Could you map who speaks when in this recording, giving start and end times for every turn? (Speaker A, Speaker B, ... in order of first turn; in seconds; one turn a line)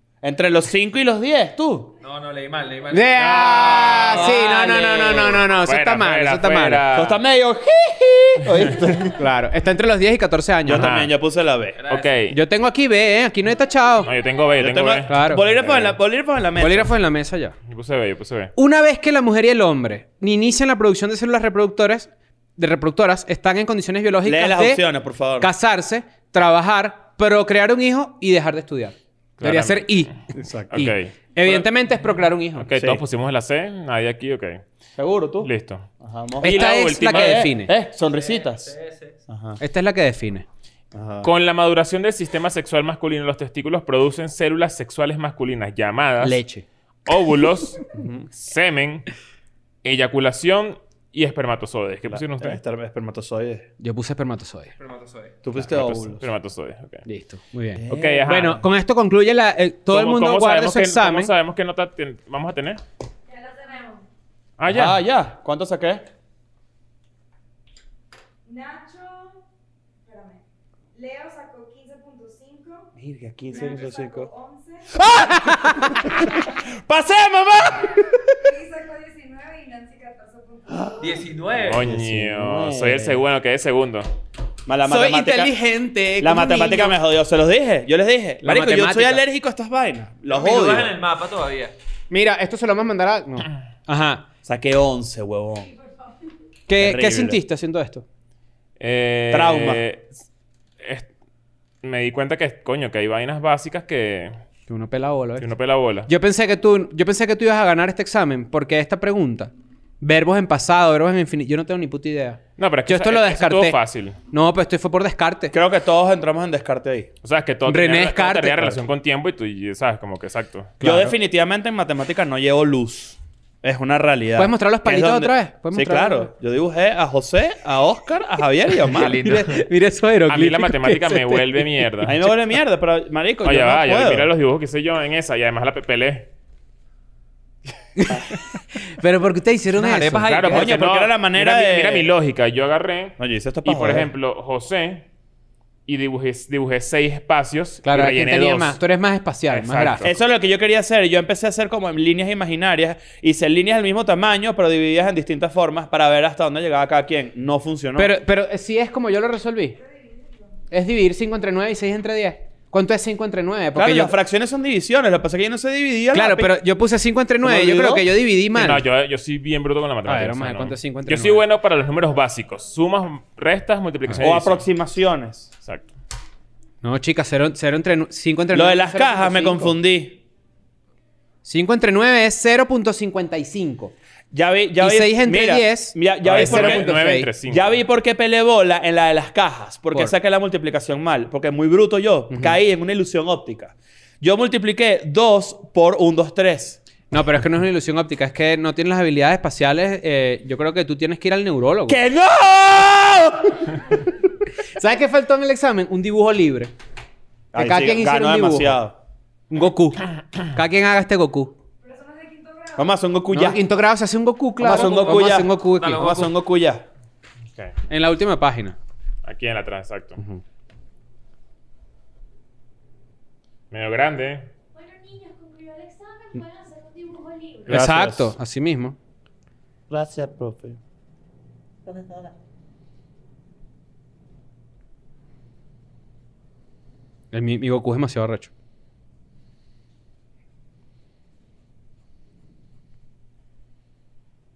Speaker A: 0.2-2.0
Speaker B: 2.0-5.4
Speaker C: 2.9-6.8
Speaker D: 3.5-4.2
Speaker D: 5.4-7.2
Speaker A: 6.9-9.2
Speaker C: 9.1-10.9
Speaker A: 10.6-11.8
Speaker D: 10.7-11.1
Speaker B: 11.8-12.1
Speaker D: 11.9-12.4
Speaker C: 12.3-14.1
Speaker D: 14.0-15.9
Speaker A: 14.6-16.9
Speaker C: 15.1-15.5
Speaker C: 16.6-17.5
Speaker D: 17.6-18.5
Speaker C: 18.6-24.8
Speaker A: 24.2-25.5
Speaker C: 25.4-32.7
Speaker D: 29.4-30.1
Speaker A: 30.3-30.8
Speaker D: 30.7-31.5
Speaker D: 32.6-34.6
Speaker A: 32.7-33.0
Speaker A: 35.0-38.7
Speaker D: 35.4-35.9
Speaker D: 36.4-37.5
Speaker C: 36.4-37.7
Speaker B: 38.0-39.2
Speaker A: 39.3-39.6
Speaker C: 39.6-40.4
Speaker A: 40.9-41.3
Speaker D: 41.2-46.4
Speaker C: 46.2-46.6
Speaker D: 47.1-49.1
Speaker A: 47.9-48.3
Speaker D: 49.8-52.6
Speaker A: 52.0-53.7
Speaker C: 53.8-54.7
Speaker B: 54.8-55.4
Speaker A: 55.4-56.3
Speaker D: 55.6-57.0
Speaker C: 57.0-61.3
Speaker A: 57.8-58.5
Speaker D: 57.9-58.6
Speaker D: 59.9-62.8
Speaker E: 63.3-64.0
Speaker F: 63.3-64.0
Speaker D: 64.6-65.0
Speaker A: 64.7-66.0
Speaker F: 68.4-69.4
Speaker F: 70.0-70.4
Speaker F: 70.9-72.9
Speaker A: 73.0-74.3
Speaker F: 73.5-75.0
Speaker A: 74.9-78.5
Speaker F: 78.4-81.1
Speaker A: 80.7-81.0
Speaker B: 81.0-81.9
Speaker D: 81.6-84.1
Speaker A: 81.7-83.2
Speaker A: 84.7-85.5
Speaker C: 84.8-87.0
Speaker A: 86.2-90.9
Speaker C: 88.4-89.2
Speaker B: 90.3-91.7
Speaker C: 92.1-94.3
Speaker A: 94.4-95.7
Speaker C: 96.7-98.0
Speaker A: 96.7-97.4
Speaker D: 98.8-100.1
Speaker A: 99.3-99.8
Speaker D: 100.8-101.1
Speaker D: 101.8-104.4
Speaker C: 104.7-105.5
Speaker D: 105.4-106.1
Speaker C: 106.0-113.8
Speaker D: 112.6-114.2
Speaker C: 114.3-115.5
Speaker A: 115.5-117.1
Speaker D: 117.2-120.7
Speaker C: 117.7-118.8
Speaker C: 120.8-121.1
Speaker A: 120.8-129.4
Speaker C: 124.4-126.3
Speaker B: 128.8-129.6
Speaker C: 129.1-131.8
Speaker D: 130.3-132.2
Speaker A: 132.1-134.3
Speaker D: 133.4-136.3
Speaker C: 137.9-140.3
Speaker B: 139.7-140.8
Speaker D: 140.2-145.0
Speaker A: 140.5-142.1
Speaker A: 143.2-144.1
Speaker D: 145.9-148.8
Speaker C: 147.8-150.1
Speaker D: 149.5-150.2
Speaker A: 150.0-158.1
Speaker C: 158.0-159.8
Speaker F: 159.8-160.5
Speaker C: 160.7-164.1
Speaker A: 163.7-166.5
Speaker C: 166.1-168.8
Speaker A: 167.4-168.1
Speaker D: 168.5-174.6
Speaker C: 170.1-171.4
Speaker A: 174.2-175.5
Speaker D: 175.6-175.9
Speaker C: 176.8-179.7
Speaker A: 178.5-180.2
Speaker C: 181.4-183.9
Speaker A: 184.3-186.9
Speaker C: 184.8-187.3
Speaker D: 186.2-187.8
Speaker A: 187.5-196.8
Speaker C: 197.1-202.0
Speaker A: 201.9-203.8
Speaker C: 204.7-206.7
Speaker A: 207.5-208.9
Speaker C: 207.5-208.8
Speaker C: 209.5-211.6
Speaker F: 211.8-213.0
Speaker A: 212.8-213.6
Speaker C: 213.3-216.1
Speaker A: 214.6-216.8
Speaker B: 215.6-216.3
Speaker C: 217.9-218.8
Speaker D: 219.2-220.2
Speaker D: 223.7-224.5
Speaker E: 224.7-227.8
Speaker A: 227.7-228.3
Speaker C: 227.7-228.9
Speaker A: 229.9-230.8
Speaker A: 231.8-232.3
Speaker C: 237.3-238.5